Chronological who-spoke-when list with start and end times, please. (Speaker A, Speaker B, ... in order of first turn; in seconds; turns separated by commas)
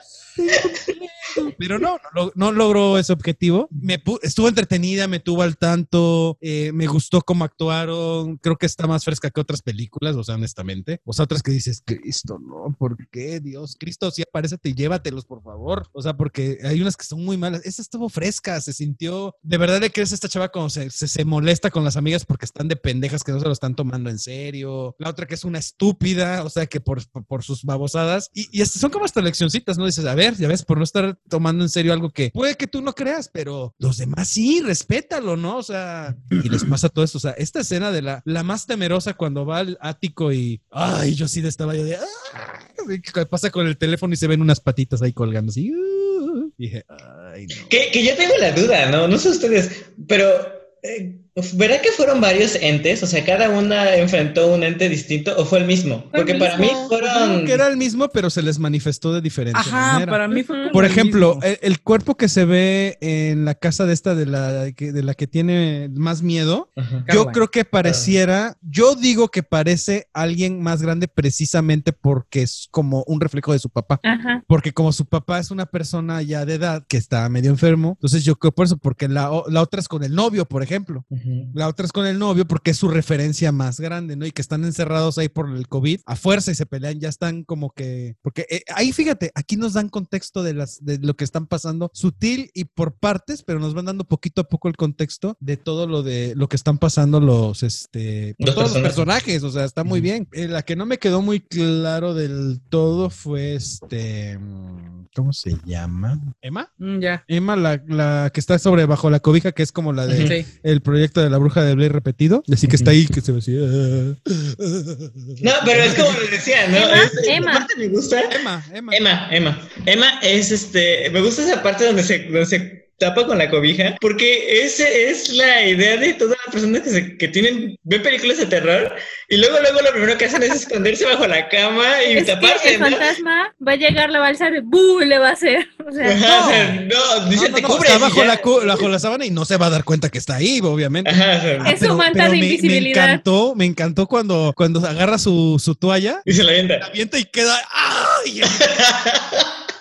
Speaker A: 0.3-47.9, Speaker B: 47.7-57.6, Speaker C: 56.1-56.9, Speaker A: 56.9-60.2, Speaker D: 59.5-61.4, Speaker C: 60.3-60.8, Speaker A: 60.7-106.7, Speaker B: 66.8-67.0, Speaker D: 67.1-67.4, Speaker B: 67.8-68.1, Speaker C: 74.0-74.4, Speaker B: 81.1-81.5, Speaker B: 98.4-99.0, Speaker D: 106.8-107.2, Speaker A: 107.3-117.2, Speaker B: 110.1-110.4, Speaker D: 110.2-110.5, Speaker B: 115.4-118.3, Speaker C: 116.7-117.7, Speaker A: 118.3-119.0, Speaker B: 118.9-133.1, Speaker C: 132.1-136.2, Speaker B: 136.0-138.4, Speaker A: 136.2-136.8, Speaker A: 137.3-146.3, Speaker D: 137.8-138.1, Speaker B: 141.1-141.8, Speaker C: 141.7-143.2, Speaker B: 146.3-146.9, Speaker A: 146.8-148.7, Speaker B: 148.6-149.5